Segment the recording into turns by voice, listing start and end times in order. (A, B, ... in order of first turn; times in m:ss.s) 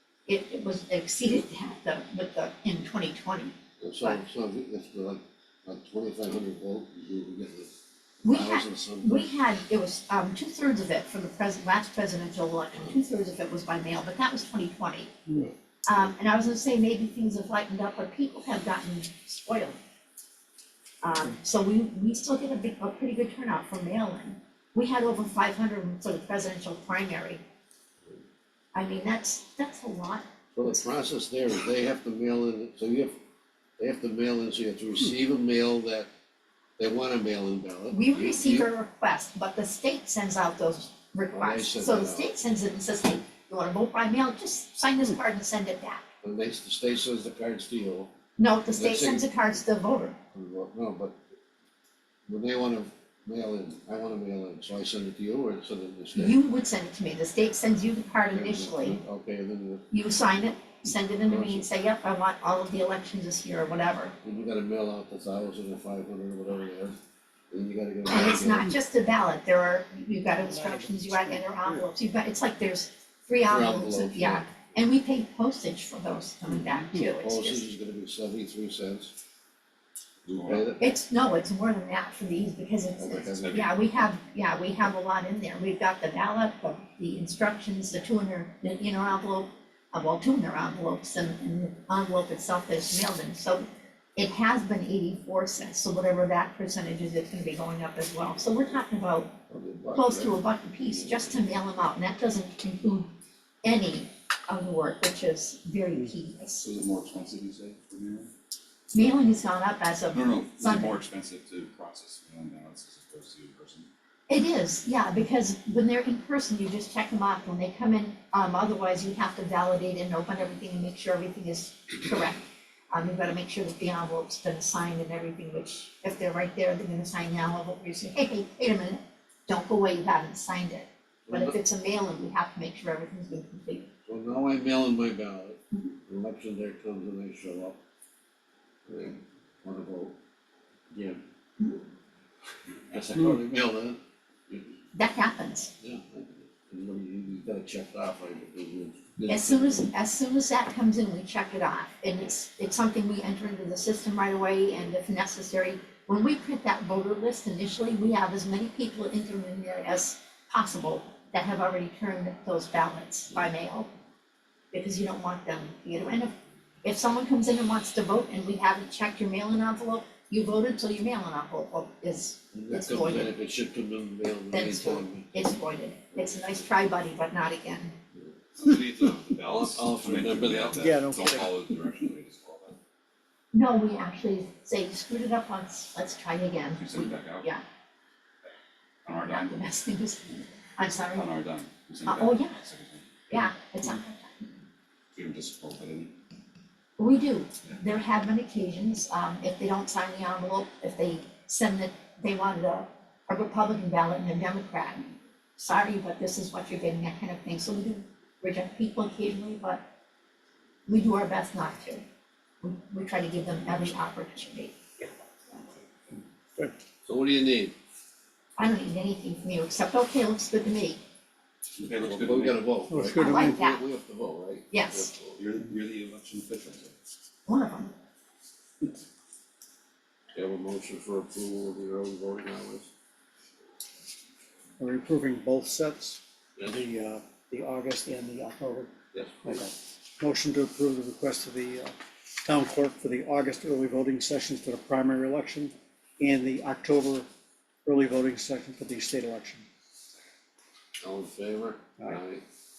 0:00.3-0:04.2 A
0:03.8-0:07.7 B
0:08.2-0:09.2 B
0:08.2-0:15.1 A
0:15.9-0:19.8 A
0:21.0-0:27.4 A
0:28.8-0:30.3 A
0:30.6-0:33.2 B
0:33.8-0:36.1 B
0:36.8-0:38.7 B
0:37.9-0:46.0 A
0:41.3-0:42.3 B
0:46.2-0:48.1 B
0:48.4-0:50.2 A
0:48.7-0:49.3 B
0:50.3-0:51.2 B
0:52.3-0:56.4 B
0:56.2-0:59.0 A
0:58.3-0:59.9 B
0:59.9-1:04.2 A
1:01.2-1:01.7 B
1:04.2-1:07.0 B
1:07.5-1:08.7 B
1:08.1-1:17.7 A
1:10.5-1:11.8 C
1:13.5-1:14.5 B
1:16.9-1:19.1 B
1:20.2-1:20.8 D
1:20.4-1:20.9 B
1:20.8-1:39.4 A
1:23.0-1:23.6 B
1:23.4-1:23.8 D
1:39.5-1:40.4 B
1:40.0-1:43.1 A
1:43.6-1:46.6 A
1:46.6-1:48.3 D
1:48.9-1:51.0 A
1:50.1-1:53.9 D
1:54.3-2:13.9 A
2:11.3-2:11.6 B
2:14.1-2:17.8 B
2:18.9-2:20.2 B
2:20.9-2:21.2 B
2:22.9-2:24.7 B
2:24.9-2:25.7 A
2:25.8-2:29.9 B
2:29.3-2:43.9 A
2:44.7-2:53.4 A
2:52.5-2:55.3 B
2:54.5-2:58.0 A
2:58.6-3:02.8 D
2:59.4-3:01.2 B
3:00.8-3:01.6 C
3:03.5-3:07.6 A
3:06.8-3:07.5 D
3:09.0-3:09.7 D
3:09.3-3:11.3 A
3:11.1-3:13.1 D
3:12.1-3:12.6 A
3:13.3-3:14.5 A
3:15.1-3:16.1 D
3:17.0-3:29.8 A
3:30.9-3:32.0 A
3:32.6-3:34.8 A
3:37.0-3:37.8 B
3:38.6-3:41.0 A
3:41.8-3:42.7 D
3:42.0-3:45.4 B
3:42.9-3:43.6 C
3:43.1-3:43.8 A
3:44.7-3:45.1 A
3:45.4-3:46.9 D
3:47.5-3:47.9 A
3:50.3-3:52.9 B
3:54.8-3:58.9 C
3:59.1-3:59.6 B
3:59.4-4:07.3 C
4:07.8-4:09.6 C
4:11.0-4:12.4 B